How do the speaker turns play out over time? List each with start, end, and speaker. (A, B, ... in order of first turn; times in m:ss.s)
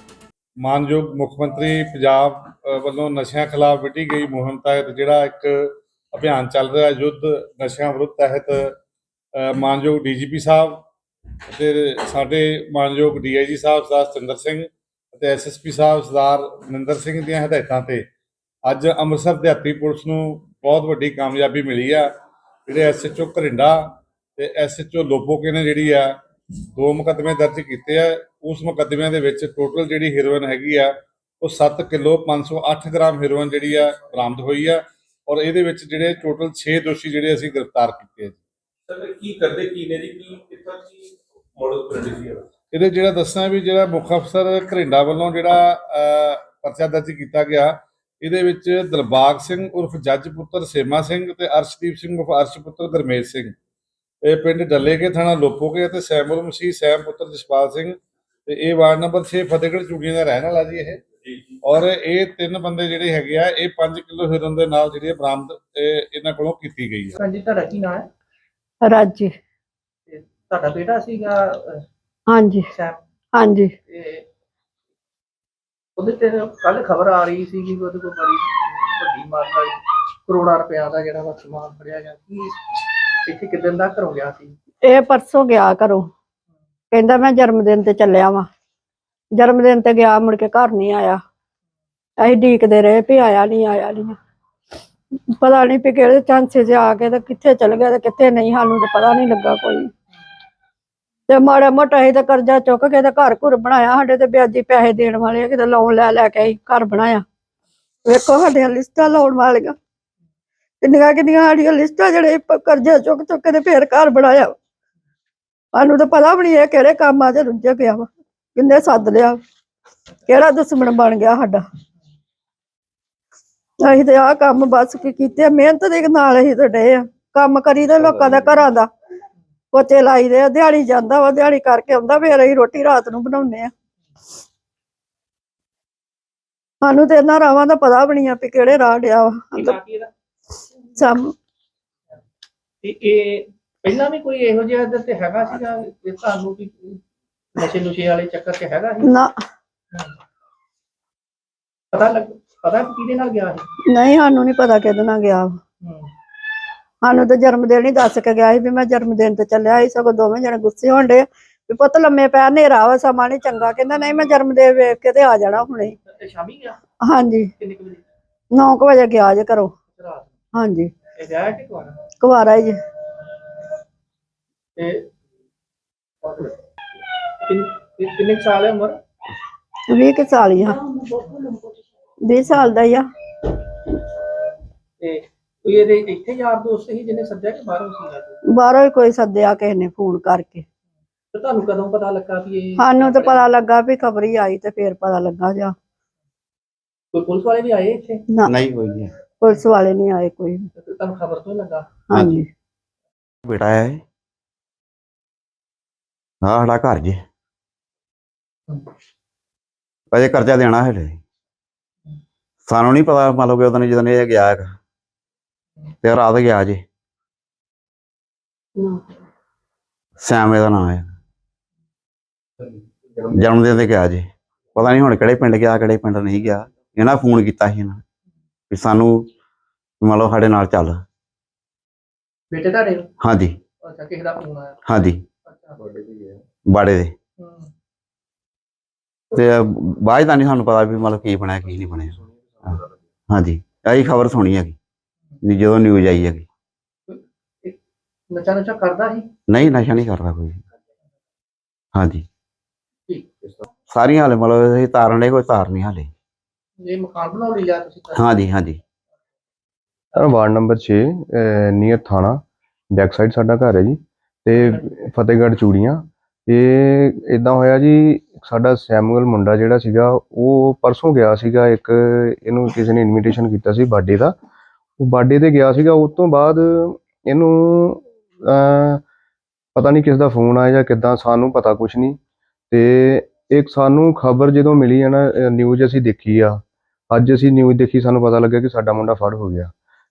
0:00.6-0:08.7 A
0:09.4-0:10.8 A
0:11.5-0:18.1 A
0:18.6-0:22.1 A
0:22.6-0:26.1 A
0:26.8-0:38.4 A
0:38.9-0:40.8 B
0:41.6-0:42.3 B
0:42.7-0:53.5 A
0:54.2-1:01.0 A
1:01.6-1:07.2 A
1:07.2-1:08.1 C
1:08.8-1:09.3 D
1:10.1-1:11.8 C
1:12.3-1:12.6 D
1:12.7-1:13.0 C
1:13.3-1:13.7 D
1:13.9-1:14.2 C
1:16.0-1:24.5 C
1:24.8-1:26.1 D
1:26.9-1:28.5 D
1:29.3-1:31.2 D
1:32.2-1:34.2 D
1:35.4-1:39.9 D
1:41.3-1:47.2 D
1:48.0-1:49.8 D
1:50.8-1:54.5 D
1:55.7-1:59.4 D
2:00.3-2:01.6 D
2:03.8-2:08.9 D
2:09.7-2:13.7 D
2:16.8-2:19.8 D
2:19.5-2:20.1 C
2:21.0-2:21.3 D
2:22.8-2:27.0 C
2:27.5-2:29.1 C
2:29.0-2:29.3 D
2:31.9-2:33.6 C
2:33.9-2:35.6 D
2:35.8-2:36.1 C
2:37.0-2:46.0 D
2:46.0-2:46.8 C
2:47.0-2:47.5 D
2:47.6-2:48.0 C
2:48.5-2:49.7 D
2:49.9-2:50.3 C
2:50.5-2:50.9 D
2:51.2-2:52.0 C
2:52.2-2:52.8 D
2:54.8-2:55.1 C
2:56.2-2:59.0 C
2:59.9-3:00.8 D
3:00.6-3:01.8 C
3:02.2-3:03.0 D
3:02.5-3:02.7 C
3:05.0-3:08.4 C
3:08.5-3:10.6 D
3:11.3-3:13.5 C
3:12.8-3:15.7 D
3:17.1-3:18.2 C
3:18.4-3:19.2 E
3:19.4-3:20.7 D
3:20.8-3:22.0 C
3:22.1-3:22.4 D
3:23.4-3:24.0 E
3:26.4-3:27.2 E
3:30.1-3:31.2 E
3:32.6-3:34.7 E
3:36.0-3:36.8 E
3:38.8-3:39.0 D
3:40.2-3:41.1 E
3:43.3-3:48.0 E
3:48.7-3:49.3 E
3:50.0-3:51.0 E
3:52.5-3:53.1 C
3:53.2-3:53.6 E
3:53.8-3:54.8 C
3:54.9-3:55.2 E
3:55.4-3:55.8 C
3:56.7-3:57.1 E
3:57.4-3:57.7 C
3:59.3-4:02.8 E
4:03.3-4:04.8 E
4:05.4-4:06.4 E
4:07.1-4:07.8 C
4:08.3-4:09.3 C
4:09.5-4:10.6 E
4:11.9-4:12.2 E
4:13.9-4:16.1 E
4:16.8-4:18.3 C
4:18.1-4:18.8 E
4:20.2-4:22.4 F
4:22.9-4:34.3 F
4:24.6-4:24.8 C
4:35.0-4:39.0 F
4:39.7-4:42.2 F
4:42.7-4:49.7 F